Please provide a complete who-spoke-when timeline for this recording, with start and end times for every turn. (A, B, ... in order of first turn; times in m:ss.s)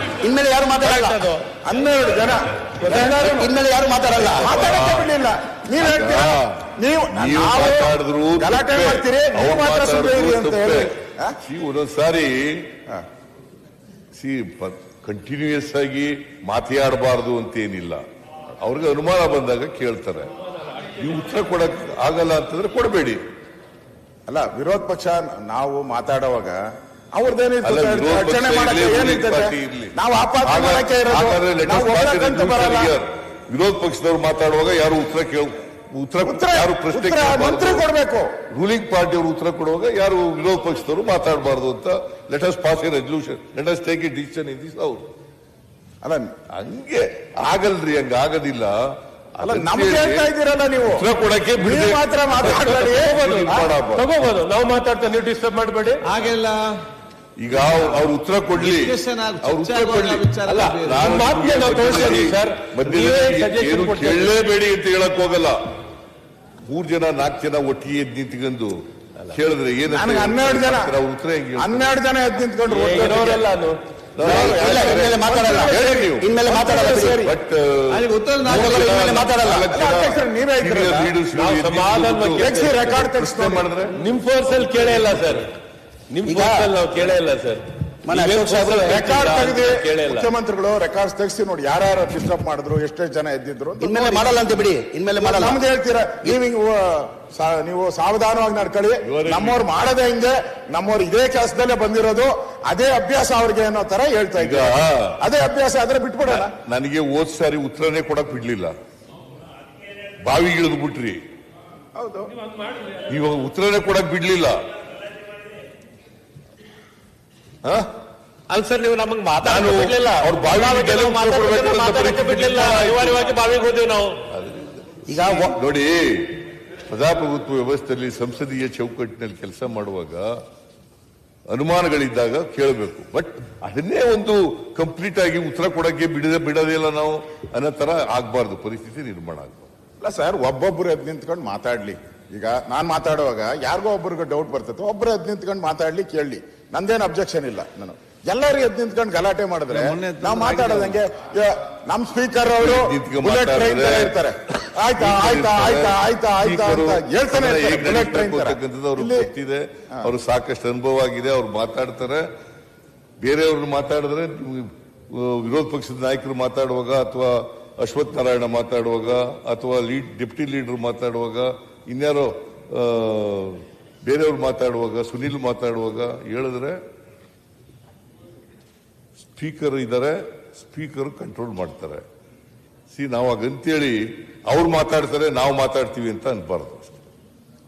0:00.2-0:01.3 A
0:00.8-0:01.4 B
0:01.6-0:03.5 C
0:02.8-0:04.7 A
0:04.2-0:05.1 D
0:04.3-0:11.4 C
0:05.8-0:12.7 D
0:14.2-0:18.0 D
0:18.6-0:20.3 D
0:21.0-0:23.2 D
0:24.3-0:26.6 C
0:27.1-0:32.9 C
0:27.6-0:37.8 D
0:36.2-0:38.3 C
0:38.5-0:45.1 D
0:46.0-0:46.3 C
0:46.5-0:48.8 D
0:49.4-0:50.3 D
0:49.4-0:51.1 C
0:50.8-0:54.2 D
0:51.6-0:53.7 C
0:52.6-0:56.1 B
0:56.0-0:56.8 E
0:57.4-1:05.6 D
0:57.6-0:58.0 E
0:58.6-1:01.4 E
1:00.5-1:04.3 B
1:06.6-1:12.0 D
1:09.9-1:10.9 C
1:11.6-1:13.5 C
1:12.7-1:13.8 B
1:14.2-1:16.3 D
1:14.2-1:17.3 A
1:14.2-1:17.3 C
1:17.2-1:24.0 D
1:17.9-1:19.0 E
1:18.4-1:19.7 A
1:19.7-1:21.2 C
1:21.3-1:22.9 B
1:22.4-1:23.7 C
1:23.9-1:25.5 B
1:24.4-1:25.4 E
1:26.1-1:30.2 B
1:26.2-1:26.7 A
1:26.3-1:27.2 E
1:28.0-1:29.1 A
1:28.2-1:28.7 E
1:28.8-1:34.5 C
1:33.8-1:35.6 A
1:35.2-1:46.5 C
1:39.0-1:39.6 D
1:44.4-1:45.2 D
1:46.3-1:48.7 D
1:50.2-1:51.2 D
1:52.0-1:52.3 C
1:53.1-1:54.6 D
1:58.5-2:04.2 B
1:59.4-2:03.3 D
2:04.3-2:10.4 D
2:05.1-2:05.6 A
2:11.5-2:19.7 D
2:20.0-2:39.3 C
2:29.7-2:31.0 E
2:32.6-2:34.3 D
2:35.0-2:42.3 D
2:43.2-2:56.8 D
2:59.4-3:02.0 D
3:02.9-3:07.0 D